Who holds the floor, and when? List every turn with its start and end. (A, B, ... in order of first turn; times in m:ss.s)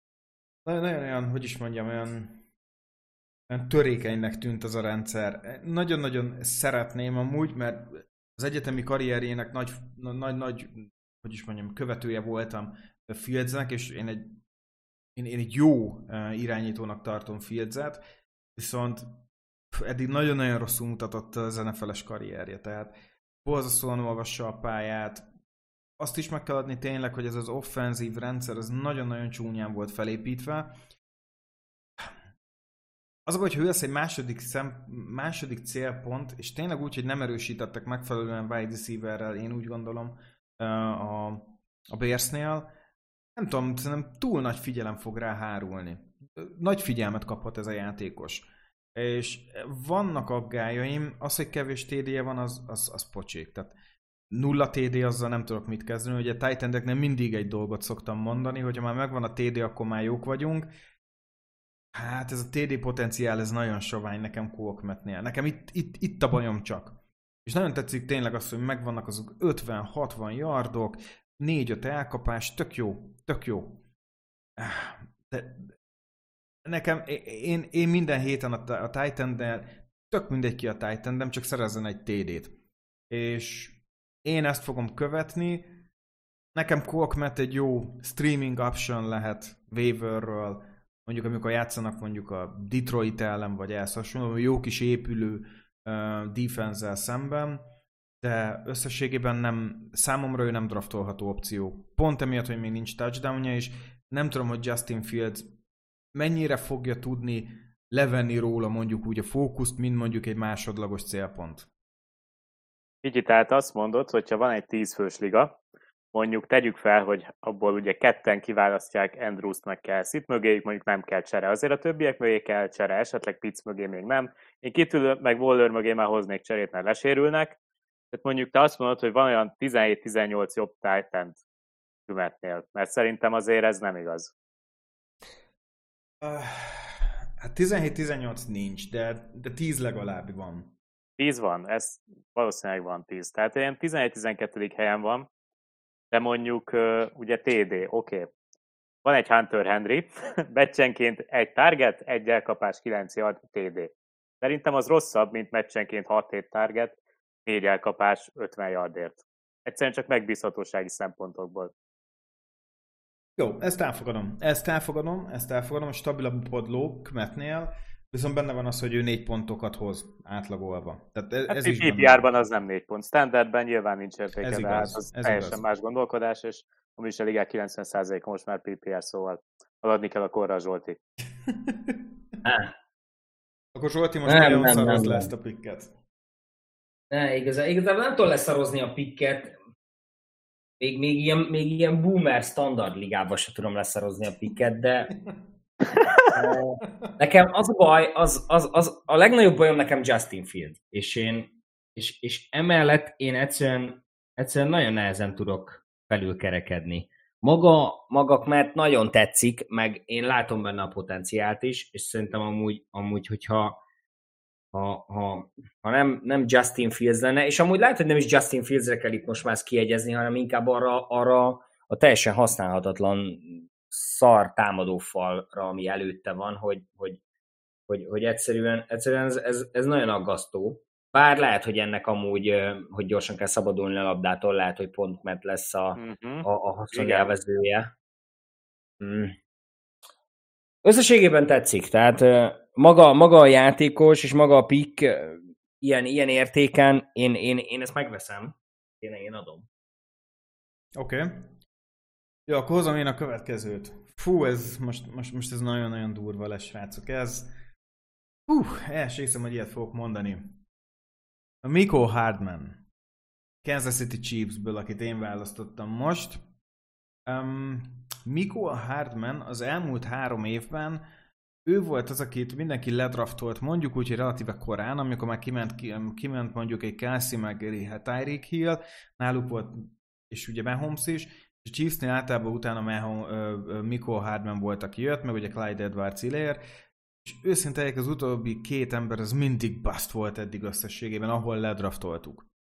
0:00.6-0:02.4 A
0:03.5-0:14.4 A
0:15.1-0:18.0 A
0:18.6-0:25.3 A
0:26.0-0:30.8 A
0:33.2-0:42.7 A
0:43.4-0:53.8 A
0:54.3-1:00.7 A
1:01.9-1:13.8 A
1:14.6-1:15.7 A
1:16.6-1:22.6 A
1:23.1-1:25.8 A
1:26.5-1:37.7 A
1:38.2-1:45.5 A
1:46.1-1:51.7 A
1:53.0-1:55.6 B
1:56.1-2:07.6 B
2:08.1-2:11.4 B
2:12.1-2:14.3 B
2:16.2-2:20.7 A
2:21.2-2:25.3 B
2:26.1-2:28.3 B
2:29.0-2:41.7 B
2:43.4-2:52.2 A
2:51.5-3:01.0 B
2:54.4-2:55.6 A
3:01.5-3:02.0 A
3:02.4-3:02.7 C
3:03.7-3:05.9 A
3:04.2-3:05.3 C
3:07.1-3:09.6 C
3:10.8-3:15.2 C
3:16.3-3:33.8 C
3:34.7-3:47.2 C
3:47.9-3:57.9 C
3:56.0-3:57.3 B
3:59.0-3:59.4 C
4:00.8-4:09.7 C
4:11.0-4:11.5 A
4:12.5-4:17.5 A
4:18.5-4:20.6 A
4:21.6-4:22.8 A
4:23.6-4:26.4 A
4:27.3-4:31.0 A
4:31.6-4:46.6 A
4:47.2-4:52.5 A